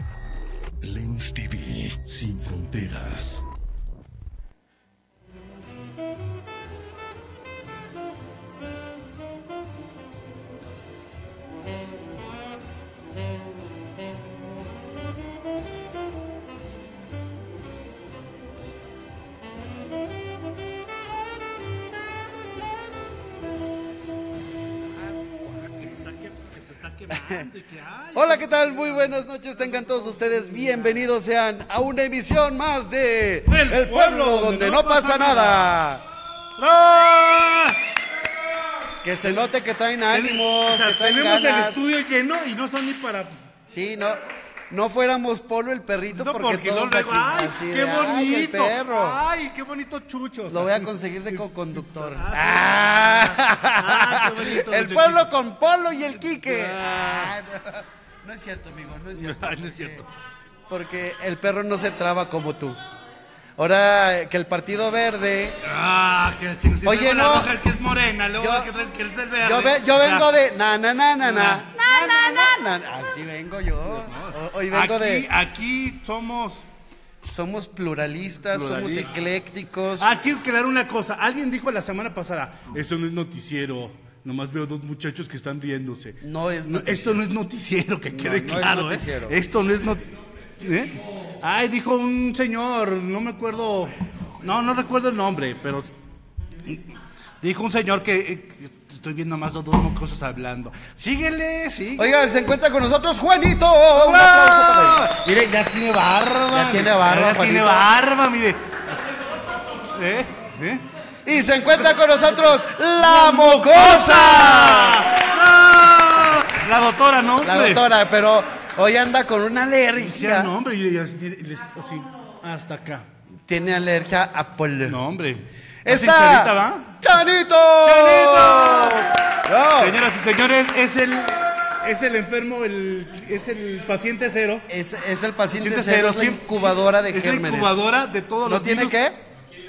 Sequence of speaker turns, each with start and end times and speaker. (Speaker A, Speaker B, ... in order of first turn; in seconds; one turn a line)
Speaker A: 0.8-3.4
Speaker B: 24.9-26.0
Speaker C: 25.7-29.1
Speaker B: 28.1-36.0
Speaker C: 29.6-31.0
Speaker C: 33.5-35.7
Speaker C: 36.6-37.9
Speaker B: 39.0-41.8
Speaker C: 40.1-43.3
Speaker B: 43.6-49.2
Speaker C: 46.1-50.9
Speaker B: 50.5-60.0
Speaker C: 51.9-55.2
Speaker C: 56.4-57.3
Speaker C: 59.2-60.0
Speaker B: 60.7-62.8
Speaker B: 63.6-65.6
Speaker C: 65.6-70.3
Speaker B: 66.8-67.5
Speaker B: 68.4-68.7
Speaker B: 69.4-75.3
Speaker C: 71.2-72.5
Speaker C: 74.0-76.7
Speaker B: 77.2-80.1
Speaker C: 78.5-79.2
Speaker C: 80.0-90.0
Speaker B: 86.2-87.3
Speaker B: 88.1-89.4
Speaker C: 90.6-95.9
Speaker C: 97.4-102.1
Speaker B: 102.0-105.1
Speaker C: 103.9-108.8
Speaker B: 106.5-107.9
Speaker C: 109.9-110.8
Speaker B: 111.2-115.1
Speaker C: 113.0-117.8
Speaker B: 117.4-120.5
Speaker C: 120.0-123.0
Speaker B: 123.5-125.0
Speaker C: 124.9-127.0
Speaker B: 125.8-130.0
Speaker C: 127.8-129.2
Speaker C: 129.8-134.7
Speaker B: 134.7-137.8
Speaker C: 135.5-139.0
Speaker B: 138.4-139.2